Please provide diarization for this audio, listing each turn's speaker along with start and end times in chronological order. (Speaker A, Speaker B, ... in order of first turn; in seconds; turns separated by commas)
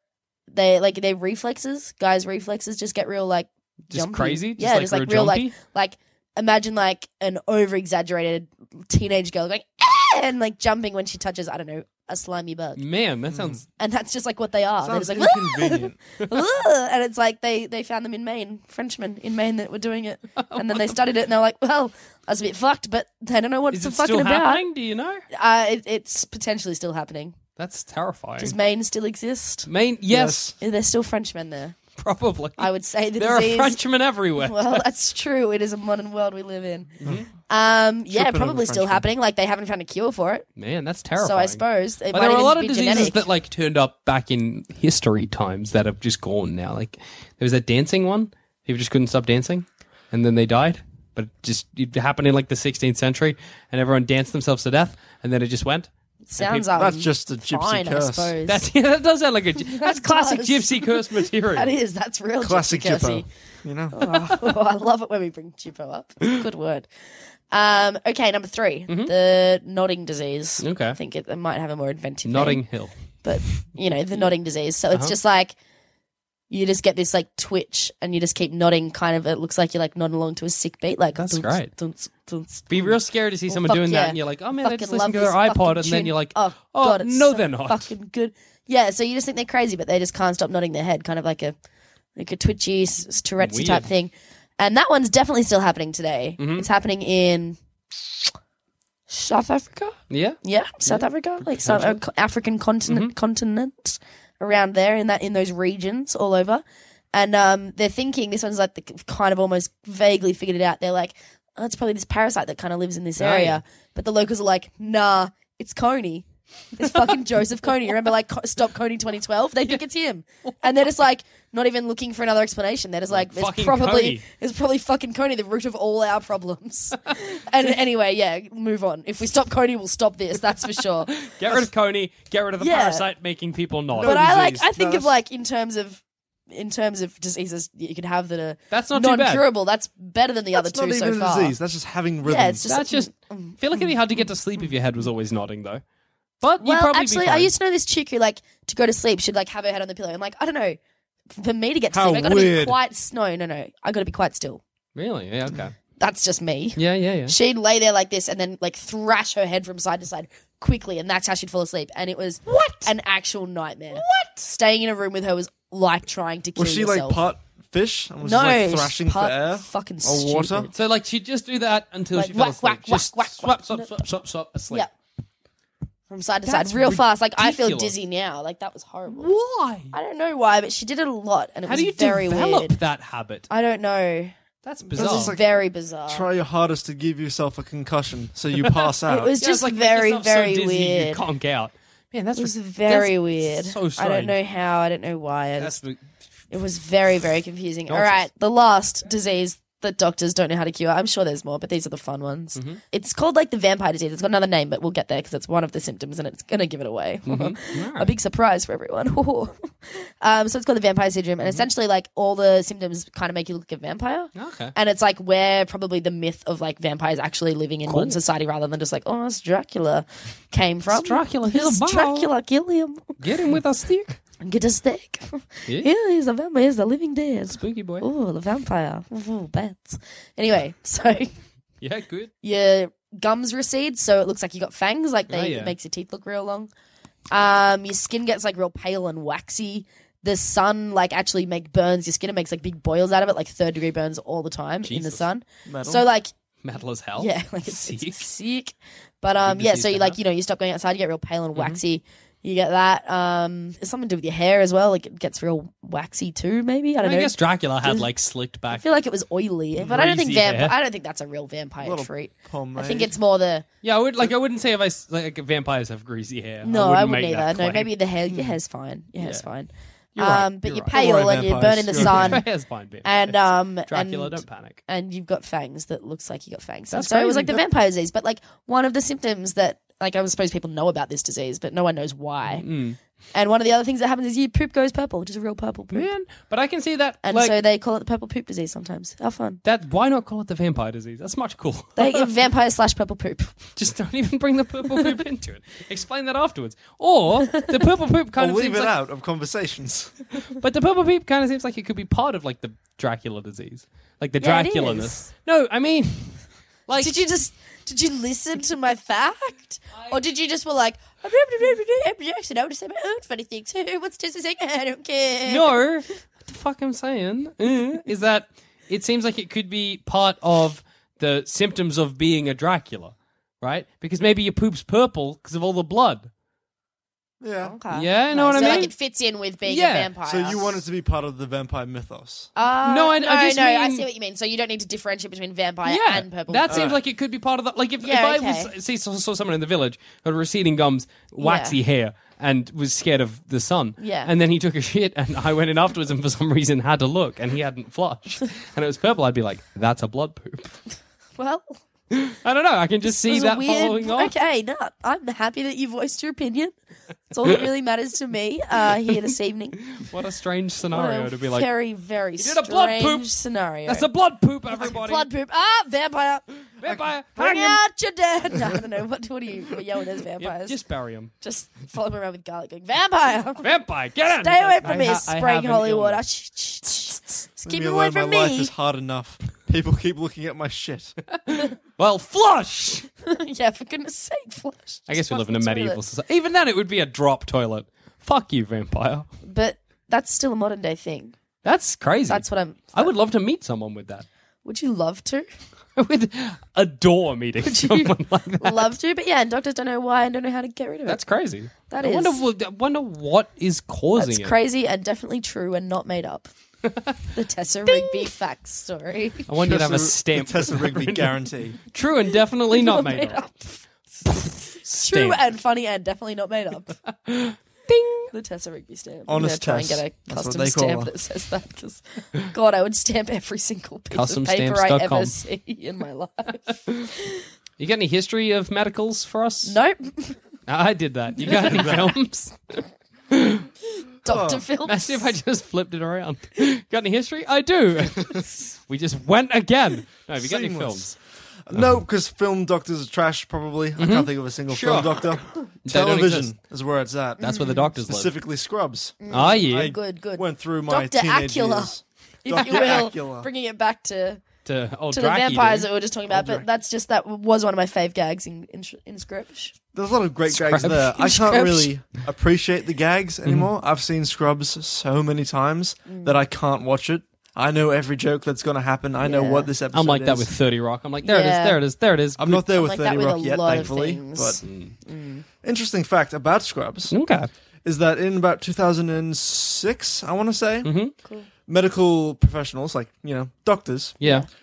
Speaker A: 0.5-12.8, Speaker B: 3.9-5.5, Speaker B: 12.8-13.6, Speaker A: 13.7-24.6, Speaker C: 14.8-16.0, Speaker B: 20.4-21.0, Speaker B: 23.7-25.2, Speaker A: 25.3-27.4, Speaker B: 27.6-28.6, Speaker A: 28.4-29.7, Speaker B: 29.7-30.4, Speaker C: 30.1-30.6, Speaker A: 30.6-31.8, Speaker B: 32.0-34.8, Speaker A: 32.6-33.8, Speaker A: 34.4-36.9, Speaker B: 37.0-37.3, Speaker A: 37.5-40.5, Speaker C: 38.1-39.1, Speaker B: 40.6-56.7, Speaker A: 41.2-43.2, Speaker A: 56.3-58.7, Speaker C: 56.8-58.4, Speaker B: 58.5-61.7, Speaker A: 59.6-63.3, Speaker C: 62.4-64.0, Speaker A: 63.9-66.9, Speaker A: 67.5-72.6, Speaker B: 68.9-69.1, Speaker B: 70.6-71.0, Speaker B: 72.2-72.9, Speaker A: 73.2-75.5, Speaker A: 76.5-91.6, Speaker B: 81.2-81.7, Speaker B: 82.7-87.9, Speaker A: 92.2-97.6, Speaker B: 93.4-93.9, Speaker B: 96.4-96.7, Speaker A: 99.1-131.3, Speaker B: 100.1-102.0, Speaker B: 102.9-103.1, Speaker B: 113.2-113.6, Speaker B: 123.1-124.2, Speaker B: 131.1-134.6, Speaker A: 132.6-133.1, Speaker C: 134.0-135.2, Speaker A: 134.0-141.6, Speaker B: 138.7-139.4, Speaker C: 140.6-142.6, Speaker A: 142.2-143.9, Speaker B: 142.7-145.8, Speaker B: 146.4-147.5, Speaker A: 146.6-150.8, Speaker A: 151.3-154.6, Speaker C: 151.9-152.8, Speaker B: 155.0-155.8, Speaker A: 156.0-167.2, Speaker B: 156.8-157.3, Speaker B: 162.5-162.9, Speaker B: 163.9-164.4, Speaker C: 166.6-170.7, Speaker A: 168.2-170.7, Speaker B: 170.7-174.9, Speaker A: 172.1-174.0, Speaker A: 176.1-179.3, Speaker B: 176.4-178.0, Speaker B: 179.1-179.9, Speaker A: 179.9-182.8, Speaker B: 181.7-183.5, Speaker A: 183.5-184.3, Speaker B: 184.7-185.3, Speaker A: 184.9-186.3, Speaker C: 184.9-185.5, Speaker C: 186.1-189.3, Speaker B: 188.6-194.4, Speaker A: 189.1-191.2, Speaker A: 192.4-195.8, Speaker B: 195.6-196.0, Speaker A: 196.5-223.2, Speaker B: 197.9-198.3, Speaker B: 202.6-202.8, Speaker B: 207.3-208.1, Speaker B: 214.4-214.7, Speaker B: 217.9-218.2, Speaker B: 220.9-222.3, Speaker B: 223.2-224.2, Speaker A: 224.4-231.3, Speaker B: 227.5-228.1, Speaker B: 231.8-232.3, Speaker A: 232.4-236.7, Speaker B: 235.3-235.8, Speaker A: 237.3-246.3, Speaker B: 244.8-245.3, Speaker C: 245.7-246.1, Speaker B: 246.6-248.2, Speaker A: 247.2-258.1, Speaker B: 249.4-250.2, Speaker B: 251.6-251.8, Speaker B: 257.0-258.9, Speaker A: 258.7-263.6, Speaker B: 259.8-260.8, Speaker C: 261.8-263.2, Speaker B: 263.8-268.6, Speaker A: 266.6-272.4, Speaker B: 269.2-269.5, Speaker B: 270.2-271.0, Speaker C: 270.9-272.4, Speaker B: 271.9-274.8, Speaker A: 273.0-282.6, Speaker B: 276.9-277.6, Speaker B: 282.5-283.0, Speaker A: 283.3-286.1, Speaker B: 285.9-287.6, Speaker A: 287.2-289.6, Speaker B: 289.6-292.3, Speaker A: 292.0-293.6, Speaker B: 293.8-298.9, Speaker C: 298.4-300.1, Speaker B: 300.5-307.2, Speaker A: 304.4-305.3, Speaker A: 307.0-315.8, Speaker B: 315.5-326.3, Speaker C: 327.4-327.8, Speaker A: 327.6-330.8, Speaker B: 327.9-328.9, Speaker C: 328.6-328.9, Speaker B: 329.7-330.1, Speaker C: 330.2-332.5, Speaker A: 332.6-336.9, Speaker B: 332.8-334.1, Speaker B: 335.9-350.8, Speaker C: 336.7-337.0, Speaker A: 338.0-338.7, Speaker A: 341.4-341.8, Speaker A: 344.0-344.3, Speaker A: 351.4-351.8, Speaker B: 352.1-354.3, Speaker A: 353.1-356.8, Speaker A: 357.3-360.0, Speaker B: 358.9-359.2, Speaker B: 359.9-361.7, Speaker A: 360.9-364.1, Speaker B: 362.4-363.3, Speaker B: 363.9-365.3, Speaker A: 364.7-370.8, Speaker B: 366.8-367.8, Speaker B: 370.4-371.3, Speaker A: 371.4-373.7, Speaker B: 373.6-376.2, Speaker A: 374.4-378.7, Speaker C: 377.7-381.2, Speaker B: 381.3-383.1, Speaker A: 383.2-386.0, Speaker B: 385.1-389.3, Speaker A: 389.4-391.4, Speaker B: 391.6-394.2, Speaker A: 392.3-393.1, Speaker A: 394.6-395.5, Speaker B: 396.0-398.9, Speaker A: 397.6-401.2, Speaker B: 401.1-404.6, Speaker A: 401.9-402.4, Speaker A: 404.2-406.5, Speaker B: 406.9-407.1, Speaker A: 407.4-409.4, Speaker B: 407.9-408.3, Speaker B: 409.5-413.5, Speaker C: 409.6-411.8, Speaker A: 412.7-416.9, Speaker B: 414.2-415.4, Speaker B: 417.3-418.3, Speaker A: 418.3-427.4, Speaker C: 419.3-421.1, Speaker B: 424.1-425.4, Speaker B: 427.8-429.8, Speaker A: 429.6-430.4, Speaker B: 430.7-433.7, Speaker A: 431.4-432.1, Speaker A: 434.2-435.3, Speaker C: 434.2-434.6, Speaker B: 434.9-441.2, Speaker C: 440.4-453.5, Speaker B: 444.0-445.3, Speaker B: 445.9-446.5, Speaker A: 447.4-447.9, Speaker B: 447.4-448.4, Speaker A: 449.2-454.4, Speaker B: 449.3-450.0, Speaker B: 452.5-453.1, Speaker B: 454.6-455.9, Speaker A: 455.1-459.8, Speaker C: 456.3-456.7, Speaker C: 459.9-470.5, Speaker B: 460.5-461.1, Speaker A: 461.1-461.9, Speaker B: 463.4-463.7, Speaker A: 466.1-466.4, Speaker A: 469.2-469.7, Speaker B: 469.9-472.6, Speaker A: 471.2-471.8, Speaker C: 472.4-474.7, Speaker A: 472.7-475.4, Speaker B: 474.6-474.9, Speaker C: 475.6-477.2, Speaker B: 477.1-477.5, Speaker C: 477.9-480.9, Speaker B: 480.8-481.1, Speaker C: 481.7-484.2, Speaker B: 484.2-484.5, Speaker A: 484.2-484.5